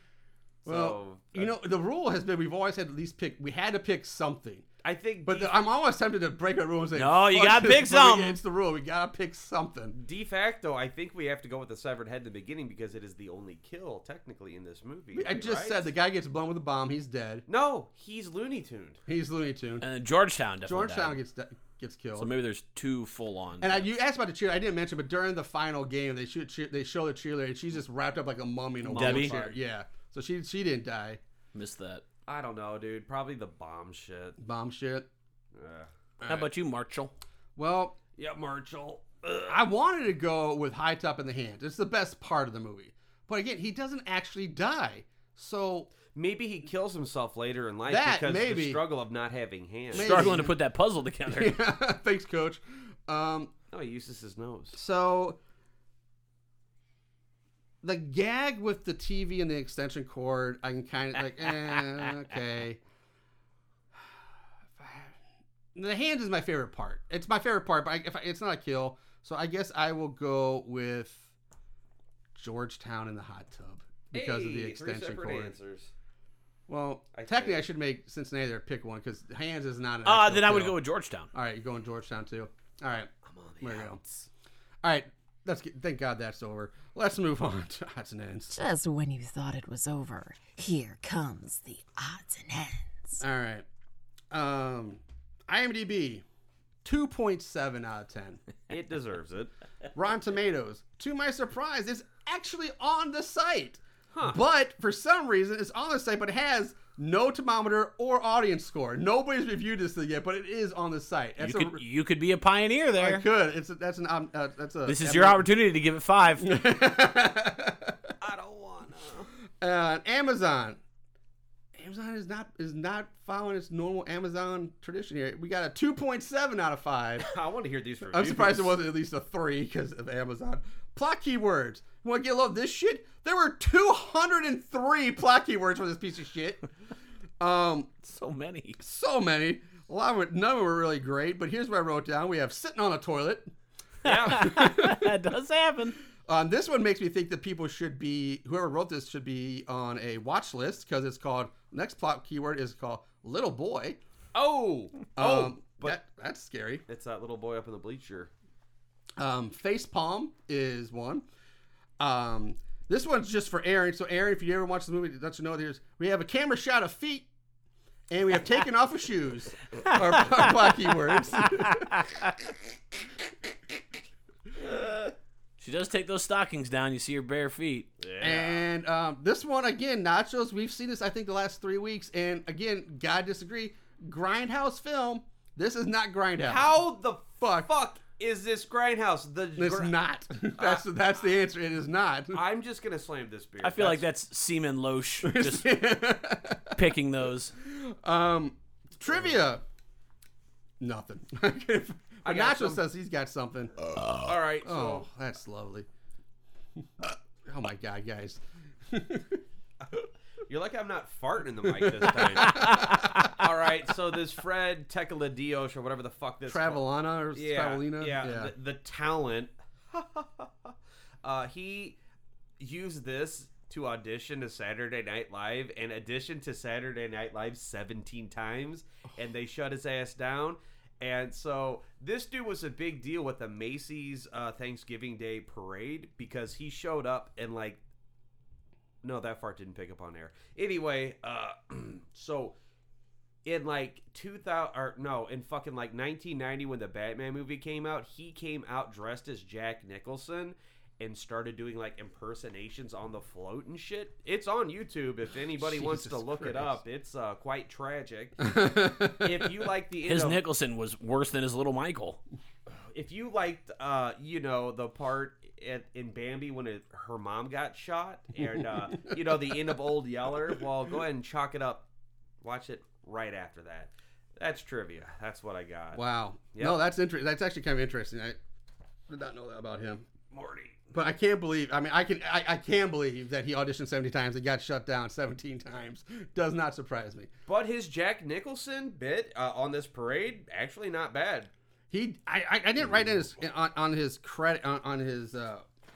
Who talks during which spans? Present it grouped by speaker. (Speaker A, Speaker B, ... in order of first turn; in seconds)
Speaker A: 0.6-1.5, 4.8-5.5, 9.9-15.9, 17.5-19.0, 28.8-29.6, 32.3-34.4, 35.5-35.9, 38.1-39.5, 46.1-50.4, 53.7-54.8, 74.1-75.9, 77.1-77.6, 83.2-84.3, 98.7-99.5, 104.1-104.4, 118.2-119.3, 127.2-128.7, 144.0-144.5, 154.3-155.9, 156.9-158.3, 178.0-178.6, 186.4-189.9, 190.6-190.8, 192.3-194.0, 202.2-202.8, 204.2-205.1, 210.5-222.0, 222.6-237.8, 239.0-242.6, 243.4-258.6, 259.1-260.4, 262.7-271.9, 272.4-276.0, 280.3-280.9, 287.5-291.5
Speaker B: 0.7-4.6, 5.2-9.9, 15.1-17.4, 19.1-19.8, 20.6-22.3, 23.6-31.2, 34.4-35.0, 36.2-36.5, 37.5-38.0, 39.5-45.9, 47.9-48.8, 49.9-50.5, 51.3-53.5, 54.7-55.4, 57.8-62.8, 64.8-65.1, 65.7-71.3, 72.3-75.5, 76.7-80.8, 81.3-83.1, 83.6-84.0, 84.8-88.6, 93.2-93.6, 94.3-96.2, 96.8-98.4, 99.9-111.8, 113.0-115.4, 116.4-118.0, 119.6-120.8, 121.8-127.3, 128.1-136.6, 137.4-137.9, 138.8-143.5, 144.3-145.1, 146.3-154.0, 155.1-156.8, 159.2-161.2, 162.0-167.3, 168.1-172.0, 178.2-186.7, 187.4-187.7, 189.6-192.4, 195.2-196.8, 197.6-199.6, 200.8-203.8, 204.6-205.9, 207.0-209.4, 212.1-213.3, 216.5-218.5, 255.6-256.8, 258.4-259.5, 268.6-269.4, 275.9-278.4, 279.1-280.1, 280.9-287.3, 291.9-295.6
Speaker C: 6.9-8.4, 19.8-21.2, 22.1-23.9, 28.9-29.3, 31.5-32.0, 36.2-37.1, 49.9-51.6, 80.0-81.3, 111.4-113.2, 114.8-116.6, 138.0-138.8, 144.0-145.9, 170.2-170.7, 171.5-172.2, 175.6-177.9, 193.6-195.7, 196.7-197.5, 212.4-213.3, 260.0-262.2
Speaker D: 88.5-93.2